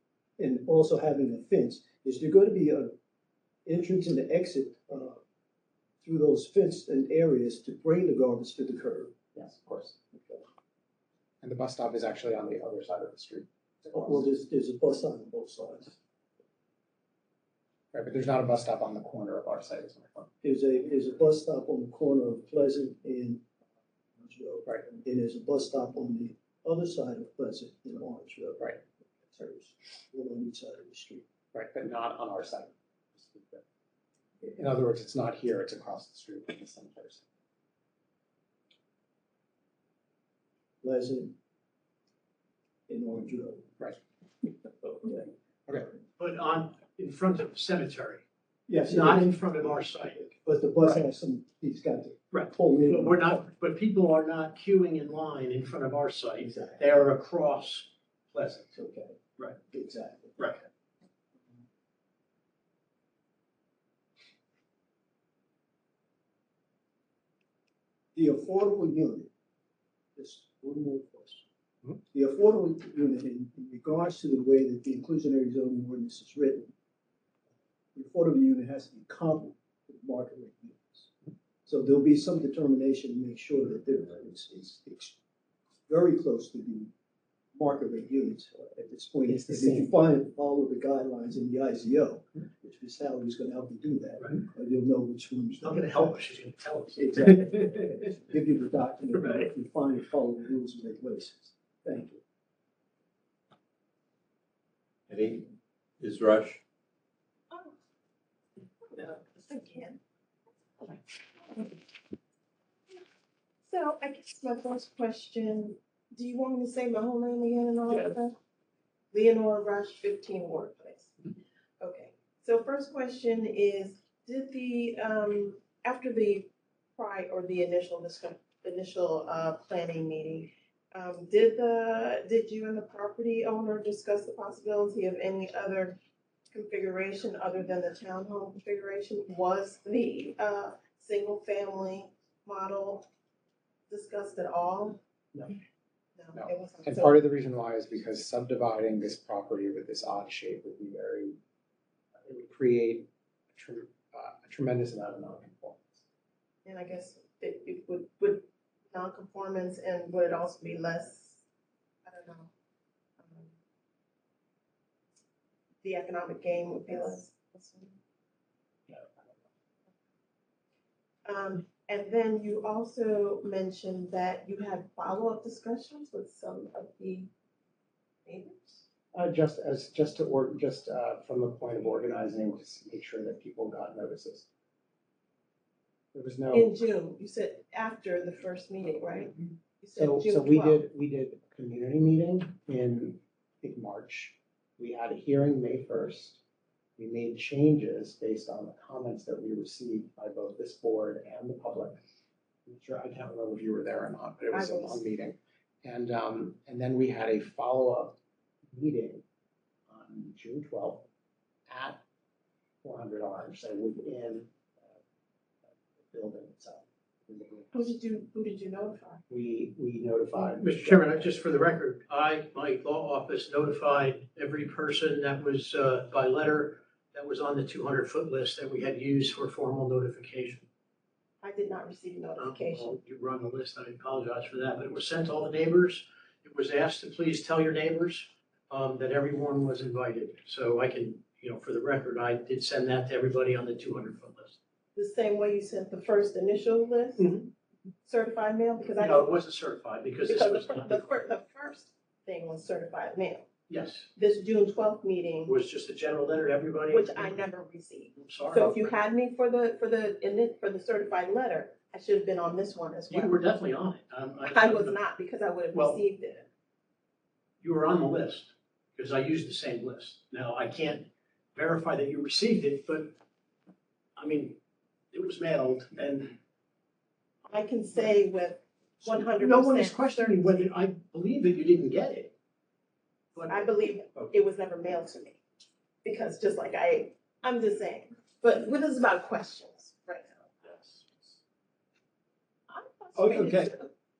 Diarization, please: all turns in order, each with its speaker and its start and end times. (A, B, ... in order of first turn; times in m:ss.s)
0:00.4-0:02.9 A
0:03.7-0:05.2 A
0:06.0-0:09.1 A
0:09.4-0:10.2 B
0:11.4-0:14.3 B
0:13.9-0:16.0 A
0:17.9-0:20.3 B
0:20.4-0:23.4 A
0:24.2-0:31.3 A
0:31.5-0:33.6 B
0:34.4-0:37.2 B
0:40.8-0:41.4 A
0:42.9-0:43.8 A
0:44.8-0:45.3 A
0:46.2-0:48.2 C
0:48.7-0:53.4 A
0:48.8-0:50.3 C
0:52.3-0:58.7 C
0:56.4-0:56.8 A
0:58.7-1:00.6 A
1:08.2-1:09.3 A
1:10.2-1:11.4 A
1:12.1-1:16.7 A
1:18.0-1:21.1 A
1:21.7-1:25.2 A
1:25.9-1:26.9 A
1:27.6-1:36.2 A
1:29.3-1:30.0 B
1:35.6-1:37.5 C
1:37.0-1:42.2 A
1:45.1-1:46.6 D
1:48.9-1:50.0 E
1:50.8-1:51.8 E
1:53.7-1:58.4 E
1:59.1-2:01.2 E
2:01.8-2:16.0 E
2:16.5-2:23.1 E
2:23.9-2:25.0 E
2:26.2-2:27.2 E
2:26.4-2:31.4 B
2:32.2-2:36.0 B
2:36.6-2:41.4 E
2:42.0-2:42.5 E
2:43.2-2:43.5 E
2:45.8-2:48.0 E
2:48.9-2:49.4 B
2:51.2-2:57.3 E
2:58.2-2:58.8 E
2:59.1-3:04.5 B
3:06.1-3:06.7 B
3:06.5-3:10.8 E
3:09.9-3:16.4 B
3:17.0-3:22.0 B
3:22.7-3:28.2 B
3:24.5-3:25.0 E
3:28.7-3:29.2 B
3:29.9-3:31.1 B
3:31.7-3:32.0 B
3:32.8-3:35.0 B
3:35.7-3:38.0 B
3:37.7-3:39.2 E
3:39.3-3:41.3 B
3:40.6-3:50.7 C
3:51.4-3:52.9 E
3:52.4-4:04.6 C
4:05.0-4:07.3 E
4:07.2-4:07.5 C
4:08.0-4:09.3 E
4:09.0-4:11.2 C
4:10.2-4:13.5 E
4:13.7-4:14.1 C
4:14.2-4:15.6 E
4:15.5-4:17.4 C
4:16.9-4:23.4 E
4:18.2-4:18.9 C
4:23.1-4:25.0 C
4:24.5-4:26.5 E
4:25.7-4:26.0 C
4:27.6-4:33.2 C
4:34.2-4:34.6 C
4:35.1-4:36.4 C
4:37.5-4:40.6 E
4:39.0-4:42.3 C
4:43.3-4:44.3 C
4:43.4-4:45.4 E
4:46.0-4:50.3 E
4:50.7-4:51.0 C
4:52.7-4:53.9 E
4:53.2-4:53.7 D